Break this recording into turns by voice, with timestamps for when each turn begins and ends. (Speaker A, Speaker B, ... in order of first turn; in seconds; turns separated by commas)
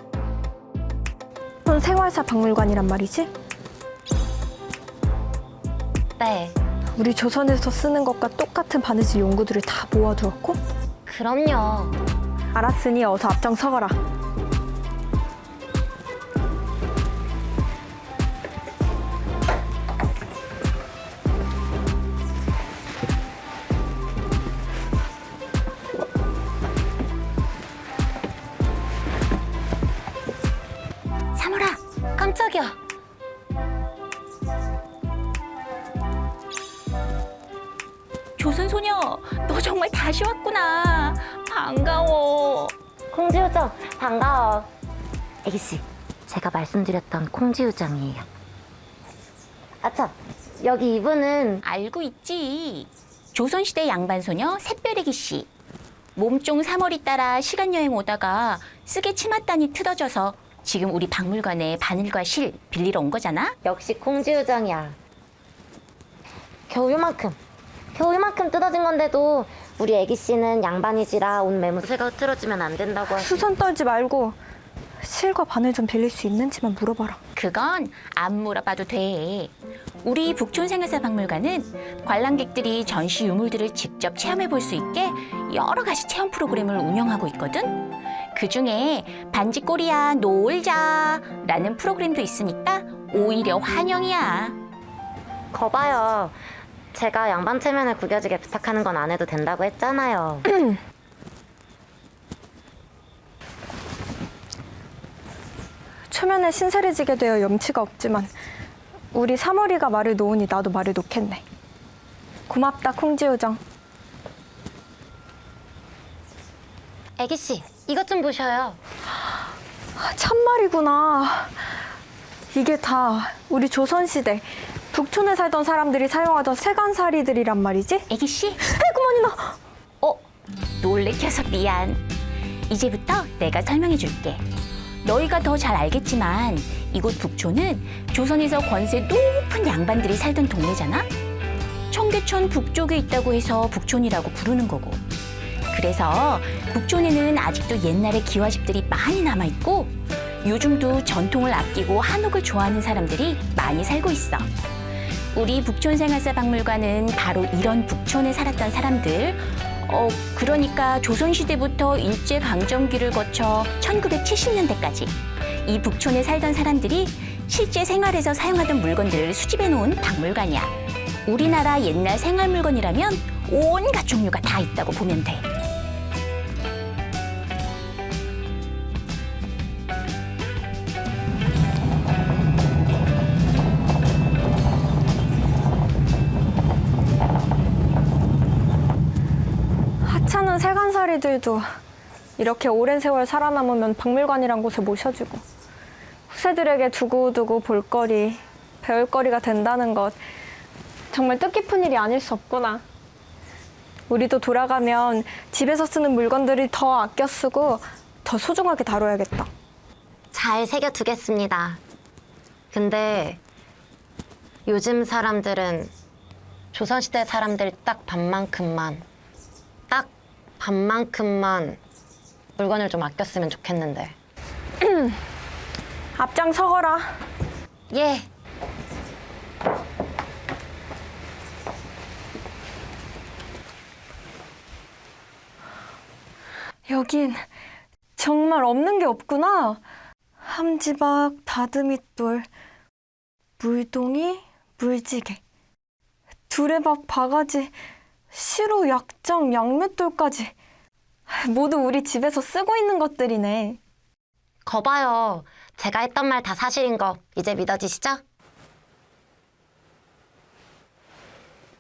Speaker A: 1.6-3.3, Speaker B: 6.2-6.6, Speaker A: 6.9-10.6, Speaker B: 11.1-11.9, Speaker A: 12.5-14.0, Speaker C: 31.3-31.8, Speaker B: 32.2-32.8, Speaker C: 38.4-42.7, Speaker B: 43.1-44.7, Speaker B: 45.5-48.2, Speaker B: 49.8-51.6, Speaker C: 51.6-55.5, Speaker C: 56.1-63.5, Speaker B: 63.6-65.0, Speaker B: 66.7-67.4, Speaker B: 67.9-73.4, Speaker A: 73.1-74.4, Speaker A: 75.0-77.2, Speaker C: 77.3-87.8, Speaker C: 88.3-94.6, Speaker B: 95.5-96.4, Speaker B: 96.9-100.5, Speaker A: 100.5-100.8, Speaker A: 106.1-108.3, Speaker A: 109.1-111.4, Speaker A: 112.5-113.6, Speaker B: 117.2-118.8, Speaker A: 120.0-121.5, Speaker A: 122.5-128.1, Speaker C: 128.1-128.6, Speaker A: 128.6-129.6, Speaker C: 130.8-132.0, Speaker C: 132.7-134.4, Speaker C: 135.0-141.1, Speaker C: 141.9-145.0, Speaker C: 145.7-154.5, Speaker C: 155.3-170.7, Speaker C: 171.2-175.5, Speaker A: 190.0-191.7, Speaker A: 192.4-195.4, Speaker A: 196.3-200.2, Speaker A: 201.1-202.8, Speaker A: 204.1-209.5, Speaker B: 210.3-211.8, Speaker B: 212.7-213.4, Speaker B: 214.7-215.9, Speaker B: 216.7-219.1, Speaker B: 219.9-221.8, Speaker B: 222.6-224.2, Speaker A: 224.8-225.2, Speaker A: 226.2-227.1, Speaker B: 227.9-228.3, Speaker A: 236.9-237.4, Speaker A: 238.2-239.8, Speaker A: 240.4-242.5, Speaker A: 243.6-245.4, Speaker A: 246.5-247.7, Speaker A: 248.3-250.5, Speaker A: 251.3-253.8, Speaker B: 254.7-258.2